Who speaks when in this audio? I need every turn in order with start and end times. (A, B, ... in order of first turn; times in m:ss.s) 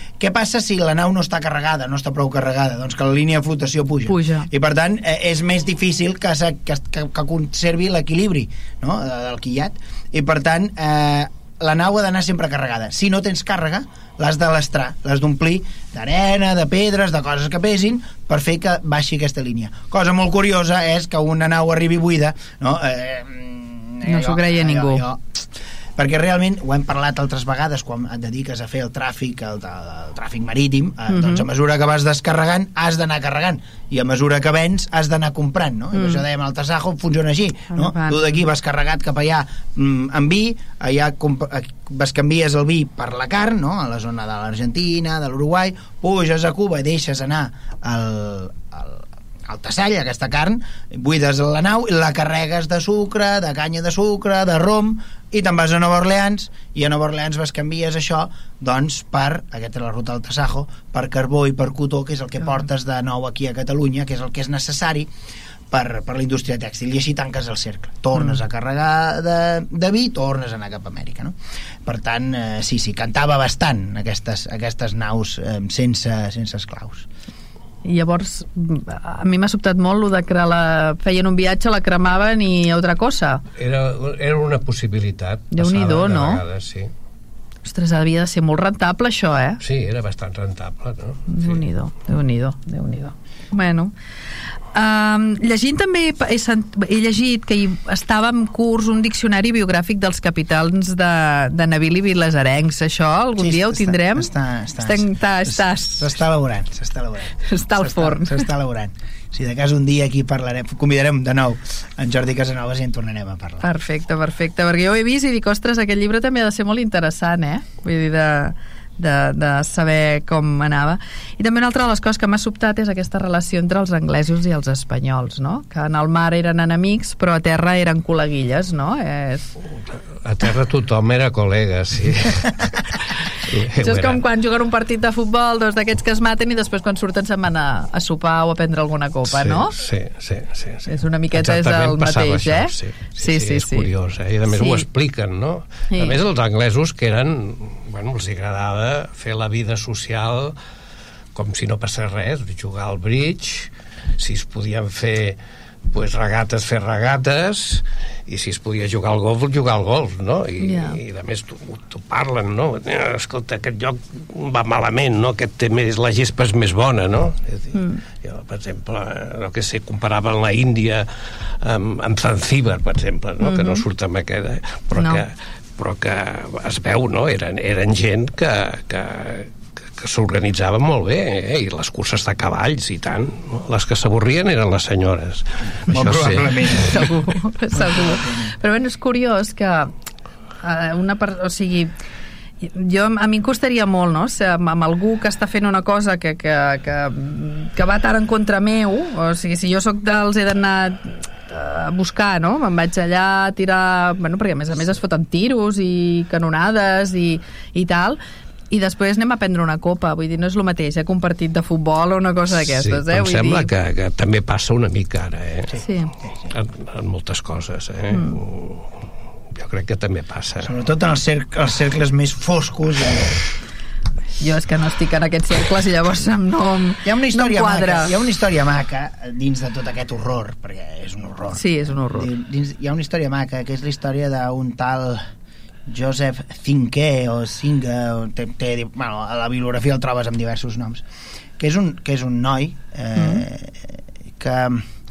0:00.2-0:25.4 A
0:04.1-0:04.5 B
0:24.0-0:25.0 B
0:26.0-1:05.1 A
0:31.1-0:31.4 B
0:35.9-0:36.2 B
0:37.7-0:38.3 B
1:05.7-1:17.1 A
1:17.8-1:23.4 B
1:23.6-1:26.9 C
1:25.5-1:26.4 B
1:27.6-1:29.6 B
1:29.6-1:31.6 C
1:31.3-1:33.9 B
1:34.7-1:44.3 B
1:43.4-1:53.6 A
1:44.8-1:46.1 B
1:47.4-1:48.4 B
1:53.6-2:09.5 B
2:10.2-2:12.8 C
2:13.4-2:14.2 C
2:13.8-2:19.8 B
2:19.3-2:30.6 C
2:20.9-2:23.9 B
2:24.5-2:24.8 B
2:31.3-2:35.4 C
2:35.9-2:51.1 C
2:40.6-2:41.0 B
2:47.7-2:48.0 B
2:51.6-3:06.8 C
2:53.4-2:53.8 B
3:05.9-3:07.1 A
3:06.7-3:09.9 B
3:08.0-3:08.5 A
3:10.6-3:11.9 B
3:12.6-3:28.2 B
3:28.7-3:33.7 B
3:32.7-3:35.8 C
3:35.8-3:36.1 B
3:36.5-3:38.9 C
3:39.5-3:40.7 C
3:40.6-3:43.4 A
3:44.4-3:48.2 B
3:47.0-3:55.2 A
3:51.5-3:52.3 B
3:55.9-4:01.0 A
4:01.6-4:04.8 A
4:03.2-4:03.4 B